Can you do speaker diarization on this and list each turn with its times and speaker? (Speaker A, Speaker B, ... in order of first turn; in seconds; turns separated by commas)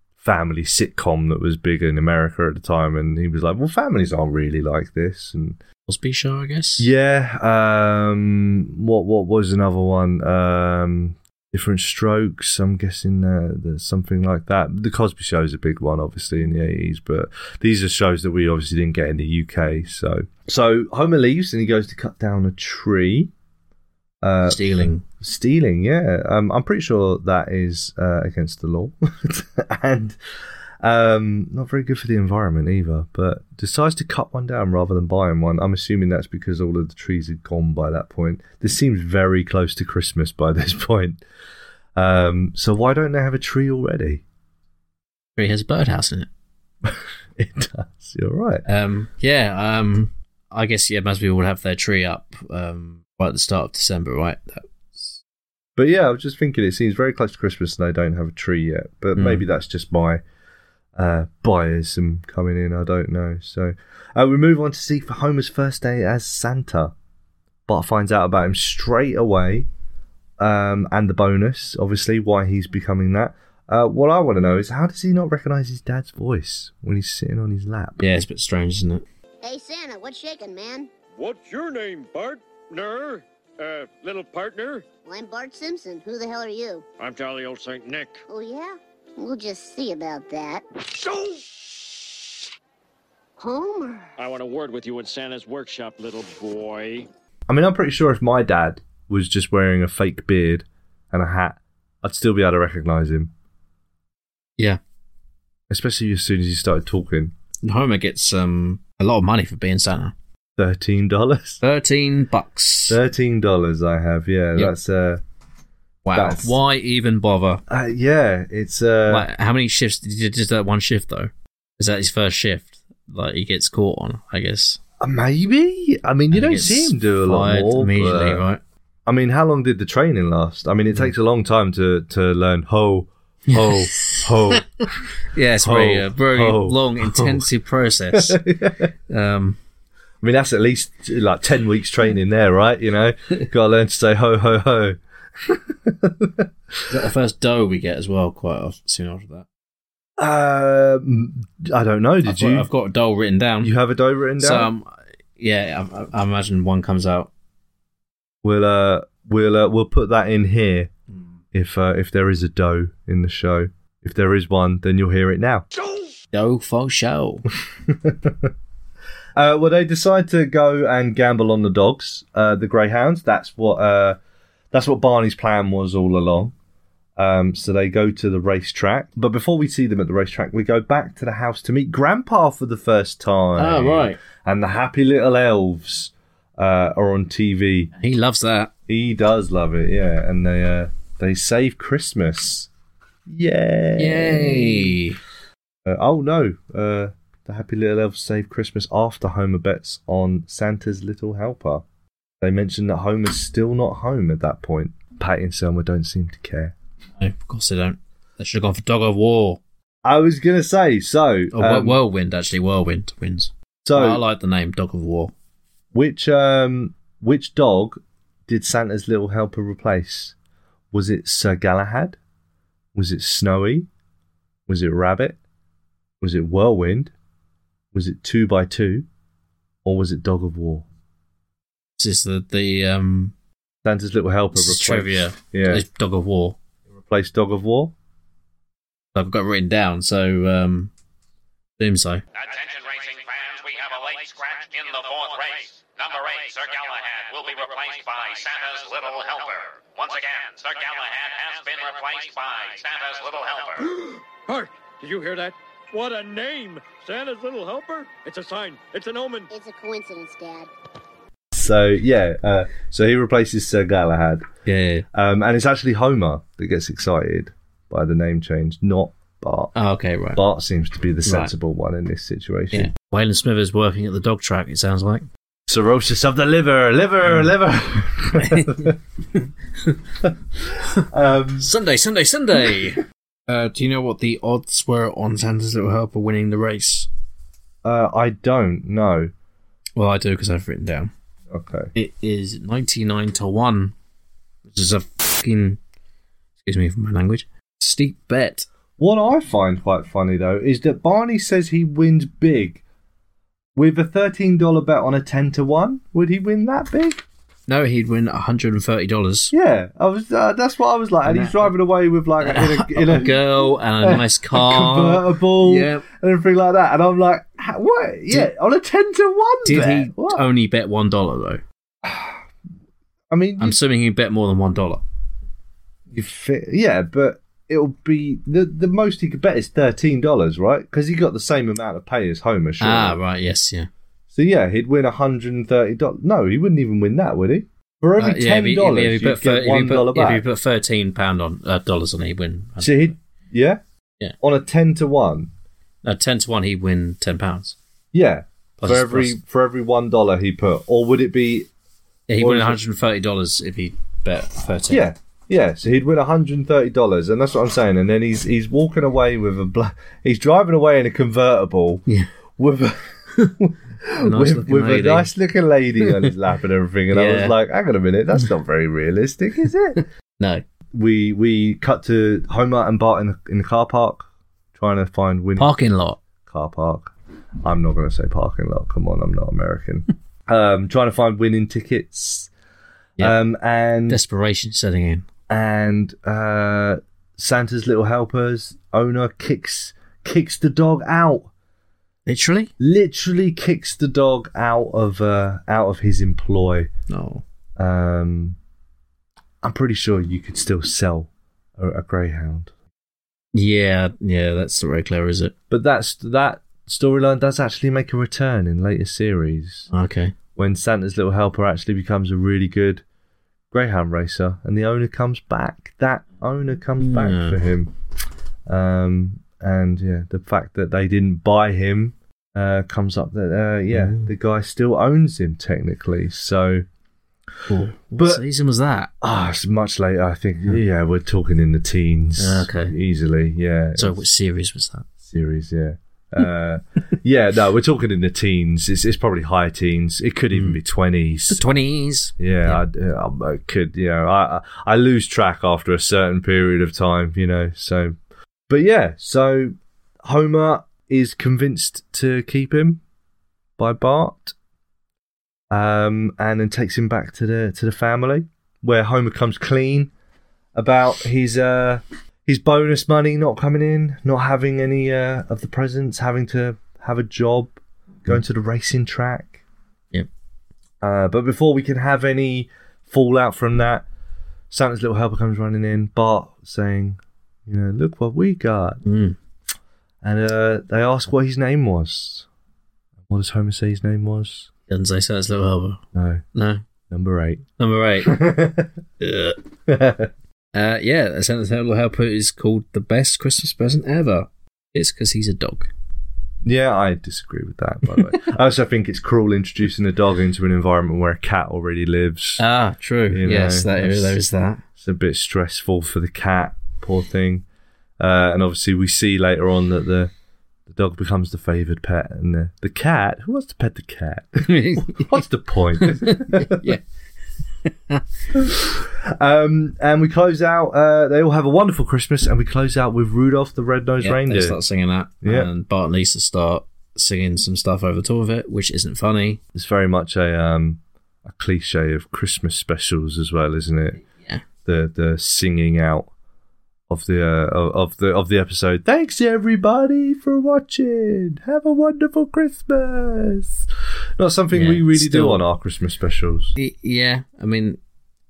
Speaker A: 0.2-5.6, Speaker B: 5.9-6.9, Speaker A: 6.8-23.3, Speaker A: 24.2-30.2, Speaker B: 24.4-25.1, Speaker A: 30.8-41.2, Speaker A: 42.0-44.2, Speaker B: 45.4-46.3, Speaker A: 46.9-48.7, Speaker B: 48.7-55.2, Speaker A: 55.8-60.2, Speaker B: 59.2-59.5, Speaker A: 61.0-66.9, Speaker A: 67.7-69.7, Speaker A: 70.4-78.1, Speaker B: 78.0-79.0, Speaker C: 79.4-80.9, Speaker D: 81.2-84.8, Speaker C: 85.0-86.9, Speaker D: 87.0-88.2, Speaker C: 88.3-90.6, Speaker D: 91.1-91.4, Speaker C: 93.4-94.1, Speaker D: 94.2-97.1, Speaker A: 97.5-103.3, Speaker A: 105.7-107.3, Speaker B: 107.6-110.1, Speaker A: 110.6-111.6, Speaker B: 111.6-113.0, Speaker A: 112.9-115.2, Speaker B: 116.0-117.6, Speaker A: 116.1-116.5, Speaker A: 117.7-119.3, Speaker B: 119.1-124.8, Speaker A: 125.0-128.4, Speaker B: 126.3-128.6, Speaker A: 129.1-137.5, Speaker B: 133.5-134.6, Speaker B: 135.2-138.4, Speaker A: 138.1-138.9, Speaker B: 139.1-139.6, Speaker A: 140.2-146.5, Speaker B: 146.9-149.5, Speaker A: 150.2-152.7, Speaker B: 152.2-153.7, Speaker A: 153.6-154.7, Speaker B: 154.4-157.3, Speaker A: 158.4-160.9, Speaker A: 161.5-165.7, Speaker B: 166.3-167.4, Speaker A: 167.9-168.5, Speaker A: 169.4-174.2, Speaker A: 174.7-176.5, Speaker A: 177.2-187.9, Speaker B: 183.6-184.2, Speaker B: 188.0-188.7, Speaker A: 188.9-192.7, Speaker A: 193.3-195.0, Speaker B: 194.0-195.2, Speaker A: 195.8-201.8, Speaker A: 202.4-206.8, Speaker B: 207.2-209.6, Speaker A: 210.1-212.0, Speaker B: 211.5-215.3, Speaker A: 213.8-214.2, Speaker A: 215.9-220.3, Speaker A: 220.9-222.2, Speaker A: 222.9-223.9, Speaker A: 224.7-225.4, Speaker A: 226.2-227.1, Speaker A: 227.9-229.1, Speaker A: 229.8-230.8, Speaker B: 232.0-233.3, Speaker A: 233.8-235.8, Speaker B: 234.6-236.6, Speaker A: 237.1-237.9, Speaker B: 239.1-240.9, Speaker B: 241.8-242.2, Speaker E: 242.3-253.9, Speaker D: 253.9-259.5, Speaker C: 259.5-260.7, Speaker A: 261.5-264.4, Speaker B: 264.7-265.1, Speaker A: 265.1-269.7, Speaker B: 269.7-270.4, Speaker A: 270.3-272.9, Speaker B: 271.2-271.5, Speaker B: 272.7-275.3, Speaker A: 275.7-279.0, Speaker B: 278.3-280.0, Speaker A: 280.2-281.7, Speaker B: 281.6-287.1, Speaker A: 287.8-289.3, Speaker B: 290.0-291.1, Speaker A: 291.5-291.9, Speaker B: 291.9-293.9, Speaker B: 294.6-295.8, Speaker B: 296.6-298.7, Speaker A: 299.0-302.8, Speaker A: 303.8-307.2, Speaker B: 307.7-309.5, Speaker A: 309.5-320.4, Speaker B: 311.2-311.7, Speaker B: 312.4-316.1, Speaker B: 319.6-321.6, Speaker A: 322.0-322.4, Speaker A: 323.3-323.8, Speaker B: 323.6-325.0, Speaker A: 326.1-333.2, Speaker B: 332.8-333.9, Speaker A: 334.3-340.4, Speaker B: 338.2-343.1, Speaker A: 342.8-343.8, Speaker A: 344.4-345.5, Speaker B: 346.0-347.8, Speaker A: 348.1-351.7, Speaker B: 348.8-349.4, Speaker B: 352.3-355.0, Speaker A: 352.4-352.8, Speaker A: 354.9-362.1, Speaker A: 362.6-370.0, Speaker B: 364.2-365.3, Speaker B: 366.0-366.3, Speaker B: 367.1-367.6, Speaker B: 370.4-370.6, Speaker A: 370.9-375.7, Speaker B: 375.6-376.2, Speaker A: 376.4-377.1, Speaker A: 377.6-382.5, Speaker A: 383.2-384.2, Speaker B: 384.1-385.3, Speaker A: 385.5-391.5, Speaker B: 392.3-392.7, Speaker A: 392.8-396.9, Speaker B: 397.1-397.4, Speaker A: 397.8-398.6, Speaker A: 399.6-402.7, Speaker B: 403.5-405.6, Speaker A: 405.7-409.9, Speaker B: 409.9-410.4, Speaker A: 410.6-413.0, Speaker A: 413.7-417.9, Speaker B: 417.0-417.6, Speaker A: 418.7-426.9, Speaker B: 423.9-424.3, Speaker B: 427.7-429.1, Speaker A: 428.1-428.4, Speaker A: 429.2-434.2, Speaker B: 432.4-433.0, Speaker B: 434.0-435.1, Speaker A: 435.2-441.6, Speaker B: 440.5-440.8, Speaker B: 441.5-442.8, Speaker A: 442.4-448.2, Speaker A: 448.7-453.0, Speaker A: 453.8-454.6, Speaker A: 455.7-460.1, Speaker A: 460.8-469.6, Speaker A: 471.0-474.1, Speaker A: 474.7-479.0, Speaker B: 479.0-479.4, Speaker A: 480.2-482.5, Speaker A: 483.3-484.7, Speaker B: 484.9-486.0, Speaker A: 486.1-486.4, Speaker B: 486.5-486.8, Speaker A: 487.1-487.6, Speaker B: 487.8-488.4, Speaker A: 488.2-488.9, Speaker B: 489.2-489.6, Speaker A: 489.9-490.3, Speaker B: 490.7-495.9, Speaker A: 496.6-502.6, Speaker B: 502.6-504.8, Speaker A: 503.3-504.4, Speaker A: 505.0-507.6, Speaker A: 508.2-510.3, Speaker A: 510.9-516.9, Speaker B: 514.6-515.4, Speaker B: 516.0-517.0, Speaker B: 517.8-518.2, Speaker A: 518.5-524.8, Speaker B: 524.2-529.6, Speaker A: 525.4-525.7, Speaker A: 529.8-534.2, Speaker B: 534.3-534.6, Speaker A: 534.9-536.3, Speaker A: 537.1-543.9, Speaker A: 544.4-546.7, Speaker B: 544.7-545.6, Speaker B: 546.8-548.0